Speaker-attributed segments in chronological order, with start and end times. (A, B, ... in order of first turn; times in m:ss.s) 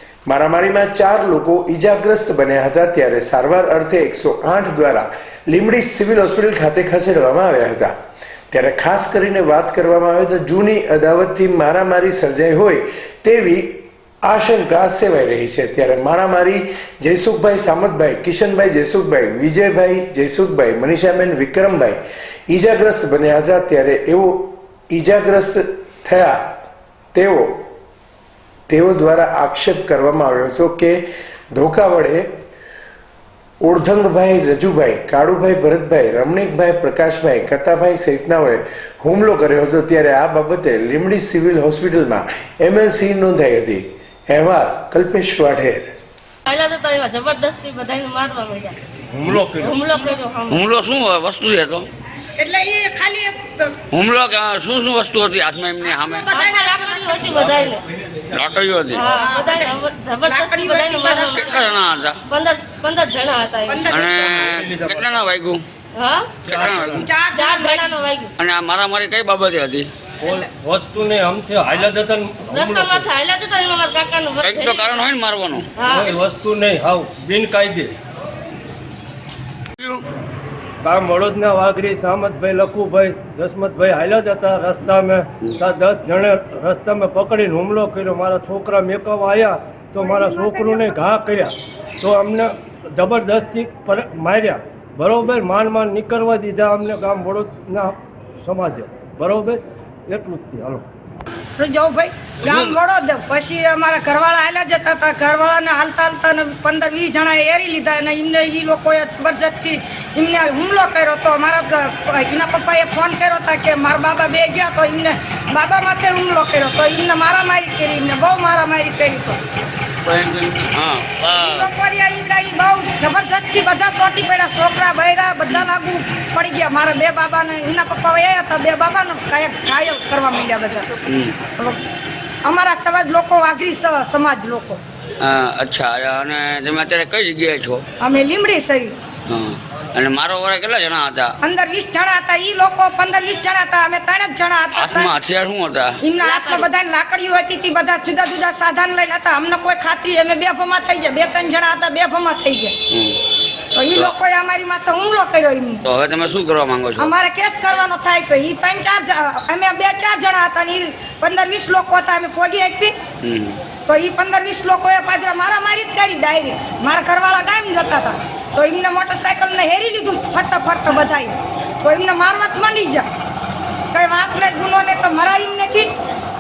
0:00.3-0:07.9 A
0:08.5-0:13.7 A
0:14.2-0:26.5 A
0:27.1-0:27.6 A
0:28.7-0:32.3 A
0:33.6-0:45.9 A
0:46.5-0:48.8 B
0:49.1-0:49.8 C
0:49.6-0:50.6 B
0:50.5-0:51.9 D
0:52.4-0:53.8 E
0:53.9-0:56.4 D
0:55.8-0:57.3 E
0:56.3-0:57.9 B
0:57.4-0:57.6 C
0:58.3-0:59.0 D
0:58.9-1:01.7 B
0:59.1-1:01.7 E
1:01.3-1:02.2 D
1:02.3-1:04.0 B
1:03.7-1:04.4 E
1:03.9-1:05.6 D
1:04.0-1:05.2 C
1:06.0-1:06.5 B
1:06.4-1:07.1 C
1:06.5-1:08.0 E
1:06.5-1:07.1 D
1:07.3-1:08.3 B
1:08.4-1:09.9 D
1:10.2-1:13.1 C
1:12.5-1:15.1 B
1:14.4-1:15.7 D
1:15.8-1:16.1 B
1:15.9-1:17.9 C
1:19.8-1:20.0 D
1:20.8-1:40.8 C
1:30.0-1:31.0 E
1:41.6-1:59.4 E
2:00.1-2:01.7 D
2:01.3-2:11.0 E
2:11.1-2:11.4 D
2:12.4-2:14.8 E
2:15.2-2:17.8 D
2:18.0-2:19.0 E
2:19.3-2:21.4 D
2:21.4-2:25.2 E
2:24.7-2:26.0 D
2:26.0-2:32.8 E
2:32.9-2:33.2 D
2:33.7-2:35.8 E
2:35.8-2:37.1 D
2:37.0-2:43.0 E
2:43.2-2:43.6 D
2:43.9-2:53.1 E
2:53.9-2:55.9 E